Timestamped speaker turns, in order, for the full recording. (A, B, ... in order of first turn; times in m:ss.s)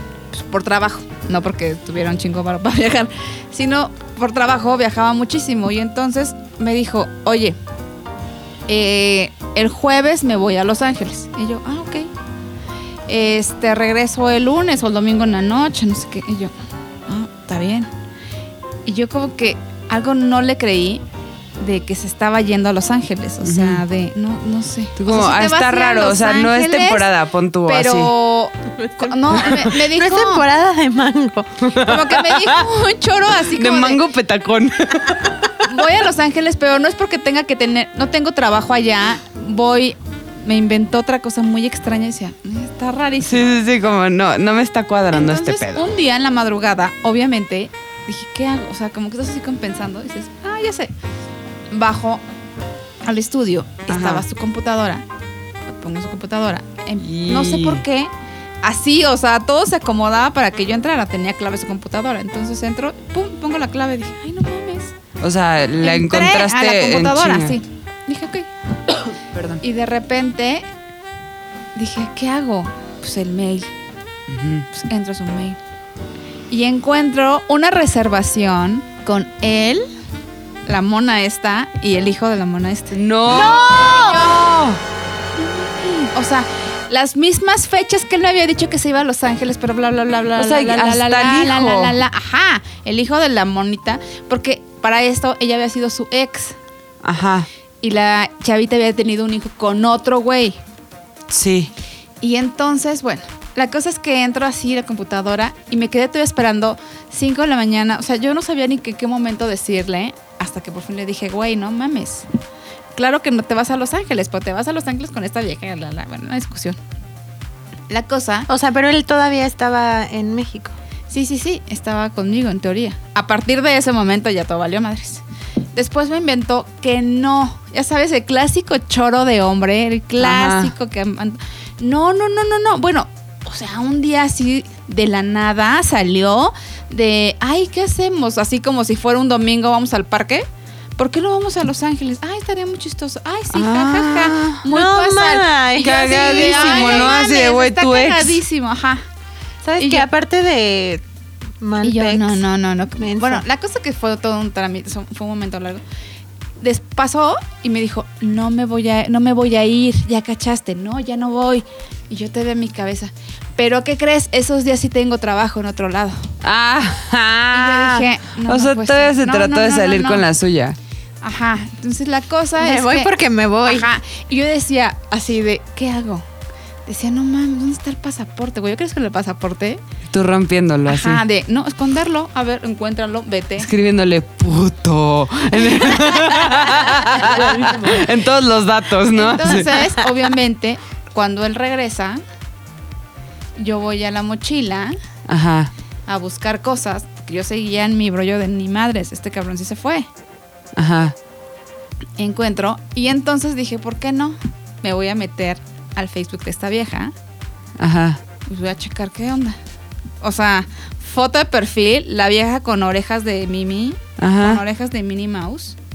0:00.3-0:07.6 A
0:08.7-0:12.1 A
0:13.1-0:16.5 A
0:17.1-0:17.9 A
0:18.9-0:21.0 A
0:21.6-0:27.1 A
0:23.4-0:23.8 B
0:25.0-0:28.1 B
0:27.7-0:30.5 A
0:29.0-0:31.6 C
0:31.7-0:32.7 B
0:31.8-0:34.0 A
0:33.5-0:35.5 B
0:35.6-0:43.5 A
0:43.2-0:45.9 B
0:45.1-0:50.9 A
0:51.7-0:52.2 A
0:53.0-0:55.0 A
0:53.9-0:54.2 B
0:55.7-0:58.1 A
0:57.0-0:57.8 B
0:58.6-1:04.9 A
1:05.2-1:07.6 B
1:05.8-1:08.5 A
1:09.3-1:09.6 B
1:09.6-1:10.7 A
1:11.8-1:13.7 A
1:14.3-1:14.7 B
1:14.7-1:15.6 A
1:16.5-1:19.9 A
1:20.7-1:24.7 A
1:22.9-1:24.8 B
1:25.4-1:36.6 A
1:30.4-1:32.0 B
1:37.0-1:37.5 B
1:37.8-1:40.6 A
1:41.3-1:41.7 B
1:42.2-1:52.3 A
1:53.0-1:56.8 A
1:57.9-1:58.5 A
1:58.5-2:00.8 C
2:01.1-2:05.2 A
2:05.8-2:20.5 A
2:10.2-2:10.7 B
2:21.0-2:29.0 A
2:23.5-2:24.6 B
2:24.7-2:27.2 C
2:25.8-2:28.4 B
2:29.6-2:31.0 C
2:29.8-2:30.1 A
2:31.6-2:32.4 C
2:31.8-2:35.8 A
2:33.0-2:33.4 C
2:36.6-2:46.3 A
2:46.4-2:50.8 B
2:47.5-2:50.2 A
2:51.2-2:53.1 A
2:52.6-2:53.9 C
2:53.6-2:56.2 A
2:56.9-2:59.8 A
3:00.1-3:01.2 B
3:00.9-3:03.7 A
3:03.6-3:09.8 B
3:06.6-3:07.9 A
3:07.2-3:08.0 C
3:09.1-3:12.2 A
3:13.6-3:15.0 A
3:15.3-3:15.7 B
3:16.1-3:20.1 A
3:20.8-3:21.2 B
3:22.2-3:27.1 A
3:27.8-3:28.2 B
3:28.5-3:29.6 A
3:30.2-3:35.8 A
3:34.2-3:34.6 B